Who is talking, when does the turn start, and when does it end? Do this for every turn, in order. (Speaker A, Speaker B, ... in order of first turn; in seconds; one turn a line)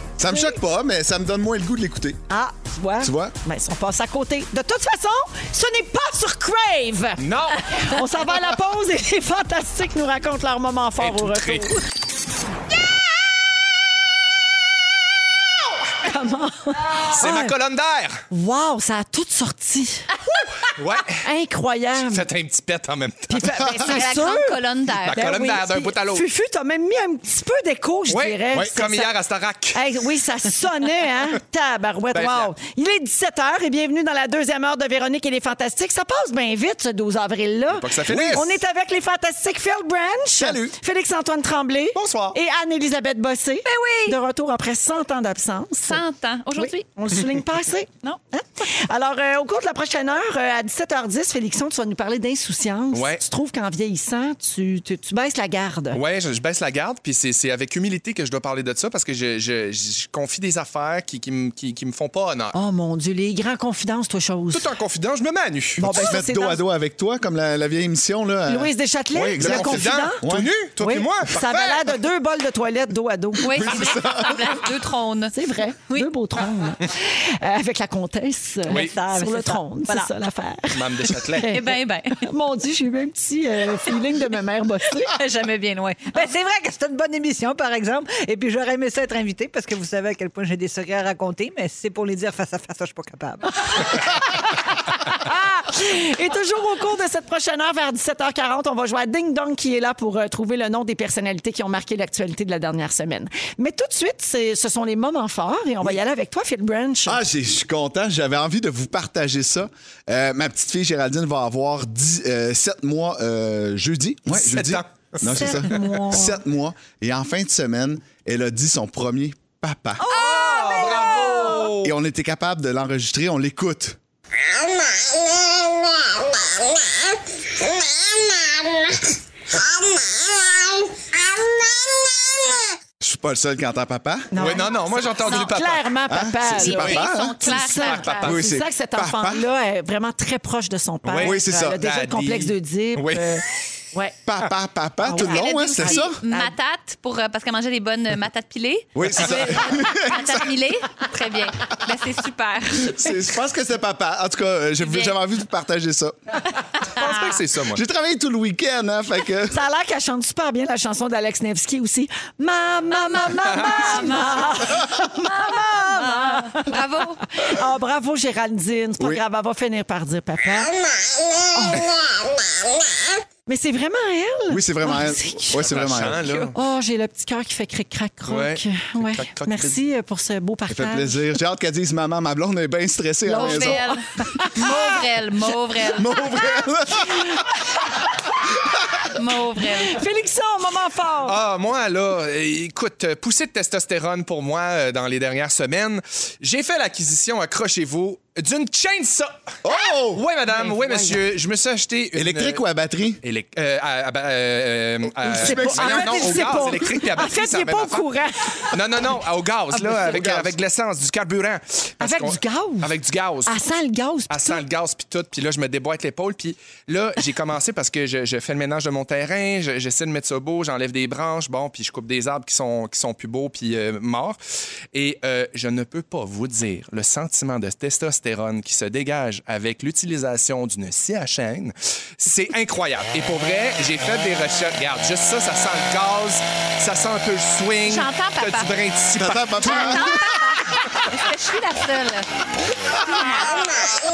Speaker A: 0.2-2.2
Speaker B: 0.3-0.6
Speaker B: 2.3-11.8
Speaker A: 3.0-3.3
Speaker C: 7.2-7.8
Speaker C: 11.0-11.7
Speaker B: 16.0-17.5
Speaker C: 17.1-18.2
Speaker B: 18.3-20.2
Speaker C: 20.6-21.2
Speaker B: 21.2-22.2
Speaker C: 22.0-23.6
Speaker B: 23.3-24.6
Speaker D: 23.8-25.3
Speaker C: 25.0-26.2
Speaker B: 25.1-29.1
Speaker C: 28.1-29.8
Speaker B: 29.7-46.0
Speaker C: 32.1-32.5
Speaker C: 37.7-38.6
Speaker C: 41.9-42.4
Speaker D: 43.6-44.2
Speaker D: 45.8-46.8
Speaker B: 46.5-56.0
Speaker C: 52.9-53.2
Speaker C: 55.9-62.5
Speaker B: 62.5-64.7
Speaker C: 64.5-66.2
Speaker B: 65.8-66.6
Speaker A: 65.8-70.5
Speaker B: 68.5-70.2
Speaker C: 69.4-72.0
Speaker B: 70.8-73.9
Speaker D: 73.4-75.3
Speaker A: 73.5-74.6
Speaker B: 75.3-85.2
Speaker C: 78.7-79.0
Speaker E: 78.7-80.1
Speaker C: 80.7-81.5
Speaker D: 81.5-82.2
Speaker D: 85.1-86.3
Speaker E: 86.1-93.5
Speaker B: 93.7-107.2
Speaker A: 107.0-120.0
Speaker C: 114.3-115.8
Speaker B: 115.2-116.4
Speaker B: 120.0-121.7
Speaker C: 120.1-121.9
Speaker D: 120.2-121.4
Speaker A: 121.8-124.0
Speaker A: 133.0-134.5
Speaker B: 134.3-144.2
Speaker C: 134.4-135.9
Speaker A: 136.1-137.5
Speaker D: 136.5-138.3
Speaker C: 137.5-138.5
Speaker A: 138.2-139.5
Speaker C: 141.0-143.4
Speaker A: 141.1-141.8
Speaker A: 144.2-146.2
Speaker B: 145.0-146.5
Speaker D: 145.1-153.1
Speaker A: 148.9-150.4
Speaker A: 152.8-156.3
Speaker D: 154.8-155.2
Speaker D: 156.8-157.2
Speaker C: 156.9-157.8
Speaker A: 157.7-159.6
Speaker B: 159.5-170.8
Speaker D: 162.9-167.2
Speaker B: 171.5-171.9
Speaker B: 173.5-175.7
Speaker A: 174.5-176.2
Speaker C: 175.6-176.5
Speaker D: 176.2-176.5
Speaker B: 176.5-181.2
Speaker C: 178.3-179.8
Speaker A: 180.7-183.9
Speaker B: 183.3-185.0
Speaker D: 183.3-186.2
Speaker A: 185.9-187.4
Speaker B: 187.1-187.4
Speaker D: 189.1-190.0
Speaker B: 189.8-191.4
Speaker C: 191.2-199.6
Speaker A: 199.6-200.2
Speaker C: 200.1-202.6
Speaker B: 200.5-201.2
Speaker A: 202.1-203.2
Speaker C: 203.2-208.1
Speaker A: 205.2-206.8
Speaker B: 205.2-208.7
Speaker C: 208.7-213.6
Speaker A: 209.9-210.5
Speaker B: 212.0-212.9
Speaker B: 213.4-214.6
Speaker C: 214.3-224.4
Speaker C: 224.9-240.1
Speaker D: 237.8-238.8
Speaker A: 239.2-240.4
Speaker D: 239.6-242.3